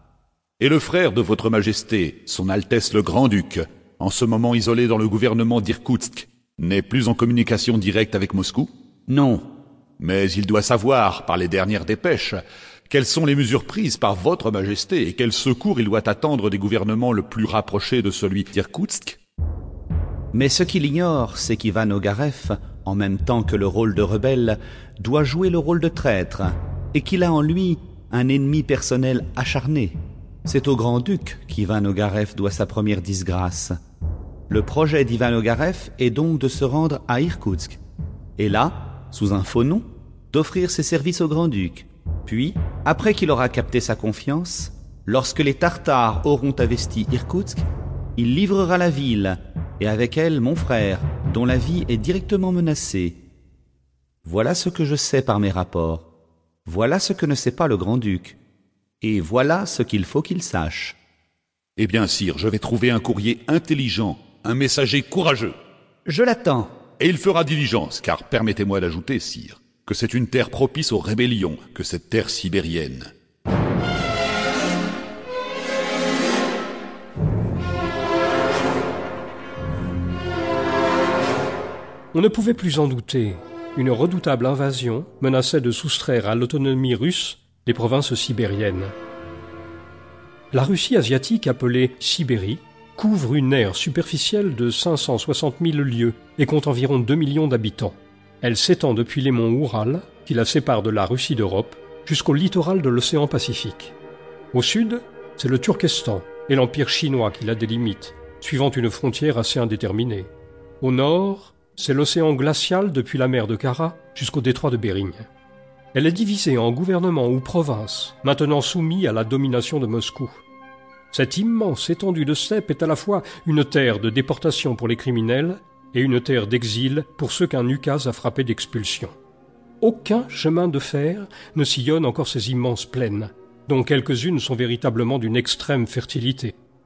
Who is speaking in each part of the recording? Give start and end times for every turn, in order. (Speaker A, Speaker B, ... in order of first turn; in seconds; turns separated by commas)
Speaker A: 0.6-8.7, Speaker B: 9.1-9.4, Speaker A: 10.0-19.2, Speaker B: 20.3-33.8, Speaker B: 34.5-37.8, Speaker B: 38.4-47.6, Speaker B: 48.2-53.2, Speaker B: 54.2-56.1, Speaker B: 56.7-58.4, Speaker B: 59.0-61.0, Speaker A: 61.8-65.5, Speaker B: 66.1-66.7, Speaker A: 67.0-73.1, Speaker C: 82.1-88.9, Speaker C: 90.5-103.9, Speaker C: 104.5-115.3, Speaker C: 115.9-120.4, Speaker C: 121.1-129.1, Speaker C: 129.8-136.6